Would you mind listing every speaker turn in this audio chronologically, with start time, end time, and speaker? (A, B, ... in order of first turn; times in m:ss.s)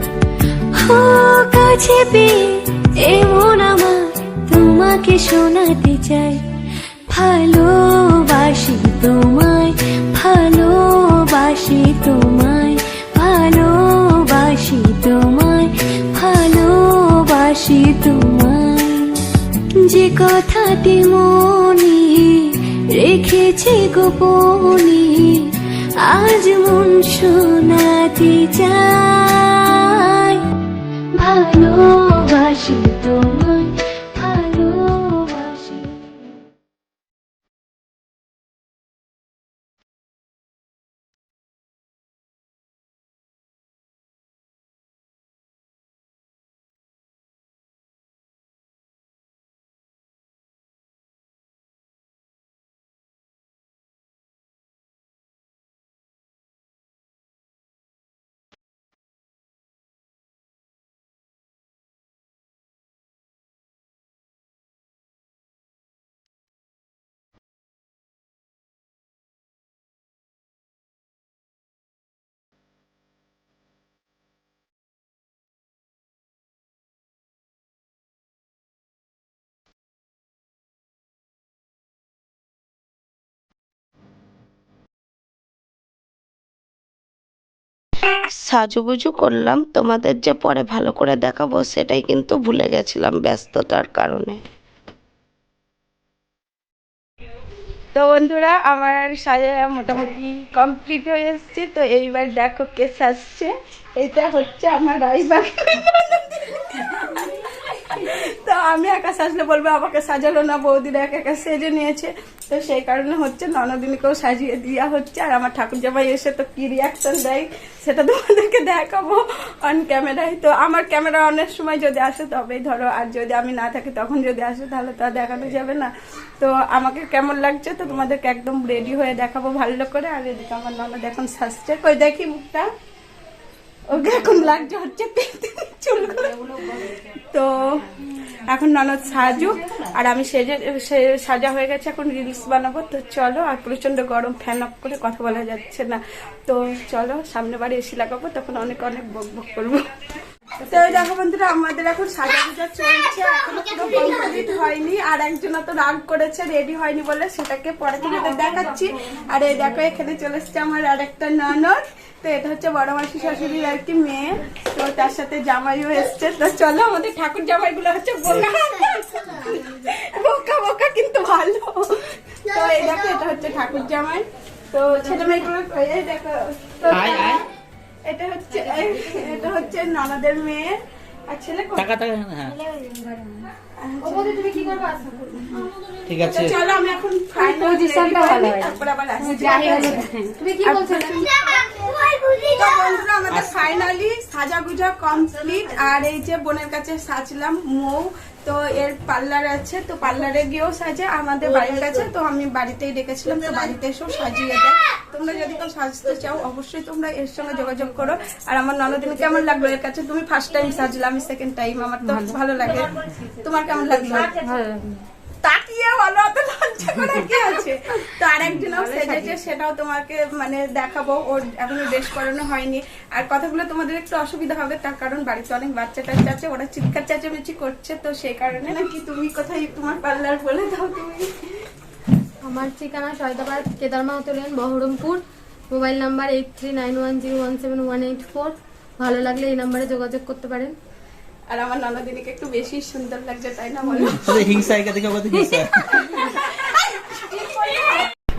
0:00.7-0:06.4 A
0:07.1-0:19.3 A
0:19.8-0:30.4 A
0:31.1-0:36.2 A
1:28.2-1:34.4 B
1:38.0-2:12.7 C
2:13.9-2:16.5 C
2:17.3-2:29.8 C
2:30.6-2:51.9 C
2:52.4-2:57.5 C
2:56.9-2:57.4 D
2:58.1-3:01.9 C
3:01.8-3:02.6 D
3:02.5-3:03.5 E
3:03.8-3:05.5 C
3:04.1-3:05.6 E
3:06.1-3:06.6 D
3:06.3-3:34.4 C
3:07.4-3:11.5 E
3:13.3-3:13.6 D
3:32.1-3:32.4 E
3:34.2-3:35.0 E
3:35.4-3:51.3 C
3:38.6-3:39.4 E
3:52.5-4:00.8 E
4:01.5-4:04.5 C
4:04.1-4:06.3 D
4:05.8-4:07.9 C